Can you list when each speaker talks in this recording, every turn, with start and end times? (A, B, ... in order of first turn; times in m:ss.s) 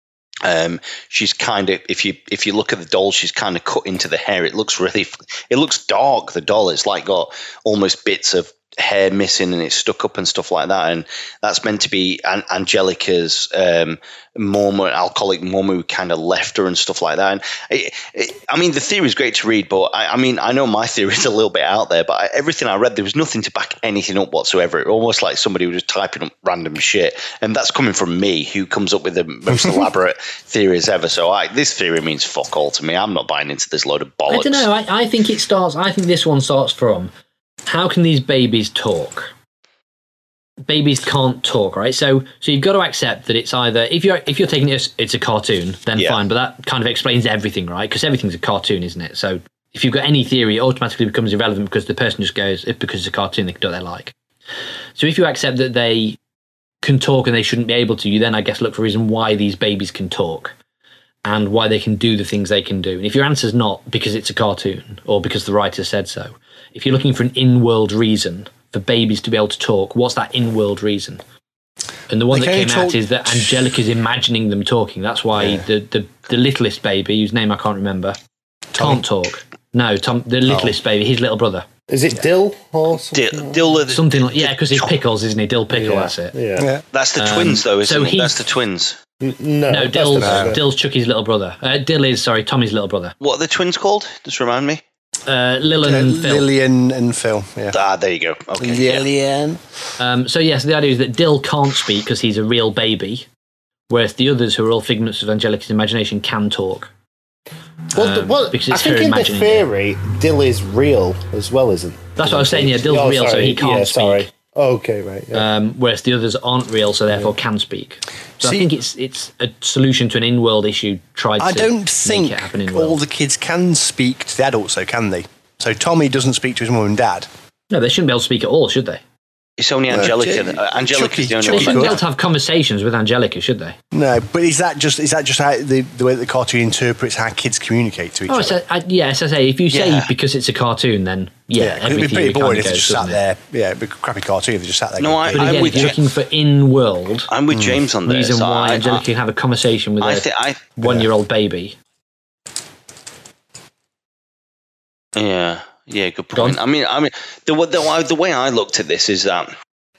0:00.4-0:34.7 A
0:34.3-0:37.1 B
0:37.7-0:39.3 B
0:40.6-0:54.1 B
0:55.0-0:56.2 B
0:56.8-1:00.5 B
1:01.2-1:11.2 B
1:12.1-1:18.2 B
1:12.3-1:13.7 C
1:15.4-1:15.6 C
1:18.7-1:19.0 C
1:18.8-1:21.7 B
1:20.5-1:20.8 C
1:21.9-1:23.6 D
1:23.1-1:24.9 A
1:23.9-1:26.4 B
1:25.7-1:26.7 D
1:26.6-1:26.8 C
1:26.9-1:29.0 A
1:27.2-1:28.4 B
1:29.2-1:30.6 D
1:29.7-1:33.2 B
1:30.2-1:30.6 C
1:33.2-1:34.8 A
1:35.3-1:36.5 B
1:35.8-1:37.8 C
1:37.7-1:39.1 A
1:38.6-1:39.6 C
1:40.0-1:43.3 B
1:43.9-1:46.9 B
1:48.0-1:49.7 B
1:48.0-1:55.5 D
1:52.2-1:54.3 B
1:55.3-2:03.0 B
1:58.4-1:58.7 C
2:01.4-2:07.3 C
2:07.7-2:09.0 B
2:09.6-2:12.0 A
2:09.9-2:12.0 C
2:11.5-2:13.8 B
2:13.9-2:18.6 C
2:18.3-2:23.2 B
2:19.7-2:20.1 A
2:21.6-2:25.9 C
2:25.0-2:26.0 A
2:25.3-2:27.3 B
2:27.3-2:29.0 A
2:27.5-2:27.8 C
2:28.0-2:31.8 B
2:30.0-2:30.6 A
2:35.2-2:39.5 A
2:36.3-2:36.6 B